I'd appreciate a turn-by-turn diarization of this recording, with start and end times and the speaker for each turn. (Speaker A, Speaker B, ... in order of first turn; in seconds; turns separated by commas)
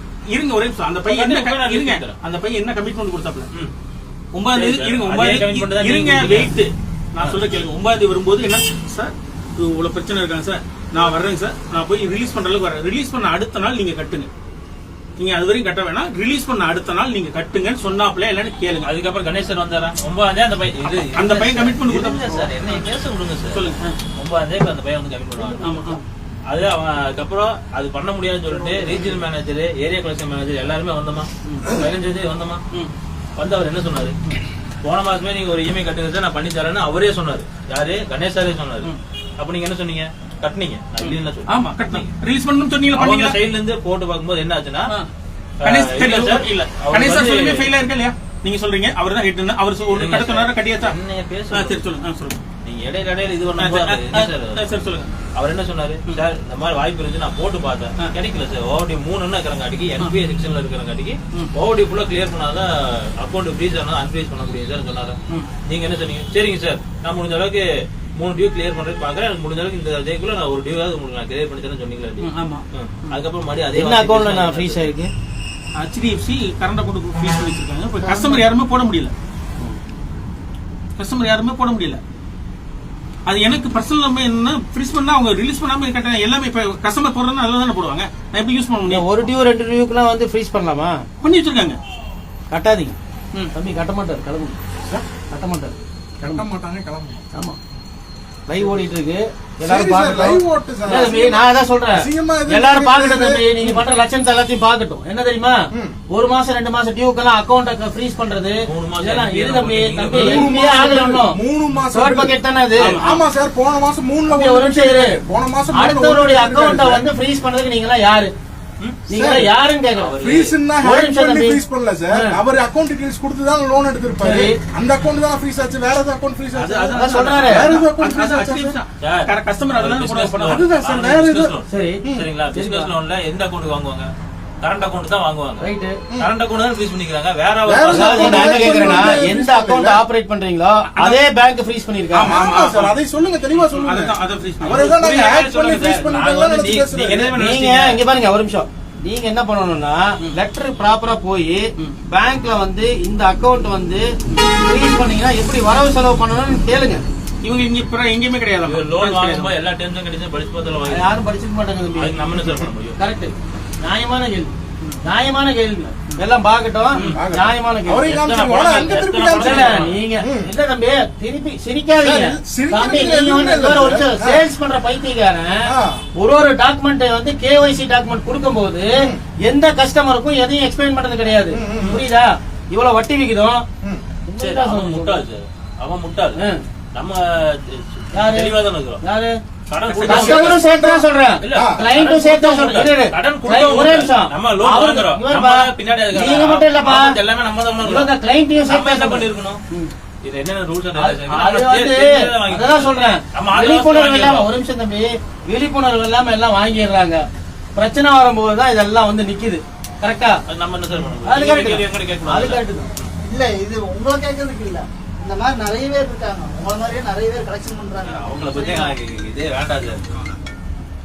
Speaker A: 0.3-3.5, Speaker B: 1.1-2.1, Speaker A: 4.3-14.3, Speaker B: 4.5-6.5, Speaker A: 15.2-18.9, Speaker B: 18.8-25.8, Speaker A: 20.9-22.8, Speaker A: 23.5-24.0, Speaker C: 25.4-25.9, Speaker A: 25.6-26.0, Speaker B: 26.5-32.6, Speaker C: 28.6-28.9, Speaker A: 31.4-31.8, Speaker B: 33.4-34.1, Speaker B: 34.8-42.1, Speaker A: 41.0-43.4, Speaker B: 42.9-44.9, Speaker B: 45.6-47.7, Speaker A: 45.6-51.0, Speaker B: 49.9-51.9, Speaker A: 51.5-52.5, Speaker B: 52.6-54.6, Speaker A: 53.5-55.1, Speaker B: 55.3-74.9, Speaker A: 72.2-72.6, Speaker D: 73.7-75.1, Speaker A: 75.8-79.1, Speaker A: 81.0-82.0, Speaker A: 83.3-89.3, Speaker D: 88.9-91.0, Speaker A: 91.2-91.8, Speaker D: 92.5-93.0, Speaker D: 93.5-94.5, Speaker D: 95.3-95.7, Speaker E: 96.2-97.3, Speaker D: 98.5-105.6, Speaker E: 99.6-103.8, Speaker E: 105.7-106.0, Speaker D: 106.1-111.4, Speaker B: 108.6-110.4, Speaker E: 110.1-112.4, Speaker D: 111.9-113.0, Speaker A: 112.8-113.2, Speaker E: 113.0-117.1, Speaker D: 114.3-115.2, Speaker D: 115.7-118.3, Speaker B: 118.8-119.1, Speaker D: 119.1-120.2, Speaker E: 119.1-119.5, Speaker B: 119.9-120.6, Speaker E: 120.2-128.8, Speaker D: 120.8-121.6, Speaker D: 124.2-124.6, Speaker A: 126.6-130.7, Speaker D: 127.0-127.7, Speaker B: 129.0-134.1, Speaker E: 130.4-132.3, Speaker D: 131.7-132.9, Speaker B: 134.6-138.6, Speaker D: 135.6-136.0, Speaker E: 137.7-140.0, Speaker D: 137.9-142.4, Speaker A: 142.1-142.9, Speaker E: 142.2-147.3, Speaker A: 143.5-145.3, Speaker B: 144.9-146.9, Speaker A: 146.9-148.0, Speaker D: 147.3-154.1, Speaker D: 154.6-157.0, Speaker A: 157.4-159.6, Speaker B: 158.6-161.2, Speaker D: 160.8-162.2, Speaker B: 161.9-163.0, Speaker E: 162.3-162.7, Speaker D: 163.0-164.5, Speaker D: 165.0-168.2, Speaker A: 166.9-167.2, Speaker E: 167.1-170.5, Speaker B: 168.2-170.0, Speaker D: 169.3-183.6, Speaker E: 172.0-174.5, Speaker E: 175.7-176.0, Speaker E: 178.9-179.2, Speaker E: 181.5-182.0, Speaker B: 181.8-182.0, Speaker D: 184.2-185.2, Speaker B: 184.4-186.4, Speaker B: 186.9-189.0, Speaker D: 188.1-189.3, Speaker B: 189.7-190.6, Speaker A: 189.9-190.4, Speaker E: 190.0-191.8, Speaker D: 190.0-197.2, Speaker B: 191.4-198.1, Speaker E: 193.6-193.9, Speaker D: 197.8-199.9, Speaker B: 198.7-199.6, Speaker B: 200.2-204.5, Speaker D: 200.9-207.2, Speaker D: 207.8-210.4, Speaker B: 210.5-213.1, Speaker D: 211.2-212.9, Speaker C: 213.2-218.9, Speaker B: 218.0-220.2